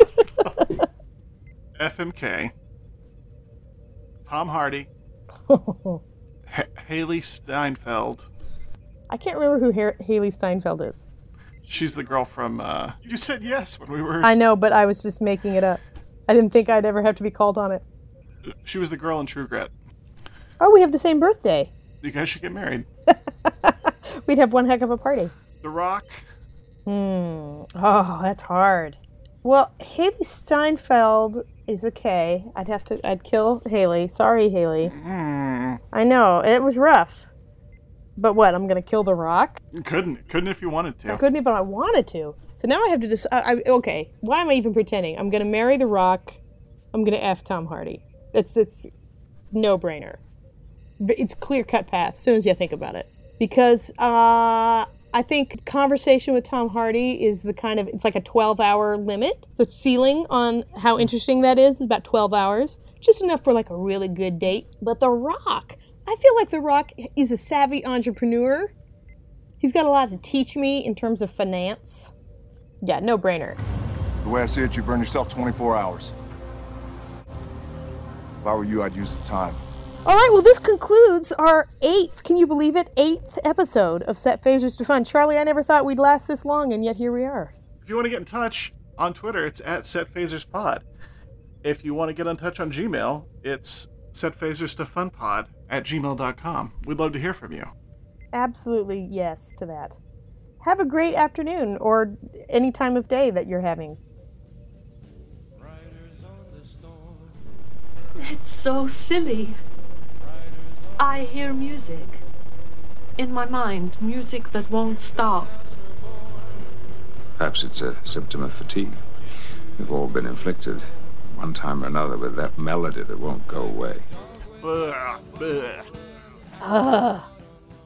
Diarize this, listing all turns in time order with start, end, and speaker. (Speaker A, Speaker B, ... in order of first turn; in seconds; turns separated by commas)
Speaker A: 0.4-0.7, Speaker B: 1.8-2.5, Speaker B: 4.2-4.9, Speaker A: 5.5-6.0, Speaker B: 6.5-8.3, Speaker A: 9.1-11.0, Speaker B: 11.6-14.3, Speaker A: 14.2-17.8, Speaker B: 18.4-19.7, Speaker A: 20.6-21.7, Speaker B: 22.0-22.9, Speaker A: 23.1-25.3, Speaker B: 25.6-26.2, Speaker A: 26.9-34.9, Speaker B: 34.8-35.8, Speaker A: 35.9-37.3, Speaker A: 38.2-39.6, Speaker B: 39.7-41.2, Speaker A: 41.1-46.4, Speaker A: 46.9-48.9, Speaker A: 49.5-50.2, Speaker A: 51.0-68.7, Speaker A: 69.6-72.1, Speaker A: 72.8-73.6, Speaker C: 74.2-76.1, Speaker C: 78.4-79.6, Speaker A: 80.0-87.5, Speaker B: 87.8-90.8, Speaker B: 91.6-97.7, Speaker A: 98.3-100.0, Speaker A: 100.6-104.0, Speaker D: 108.2-109.6, Speaker D: 111.0-112.2, Speaker D: 113.2-115.5, Speaker E: 117.4-119.0, Speaker E: 119.8-124.0, Speaker B: 124.6-125.9, Speaker A: 126.6-127.3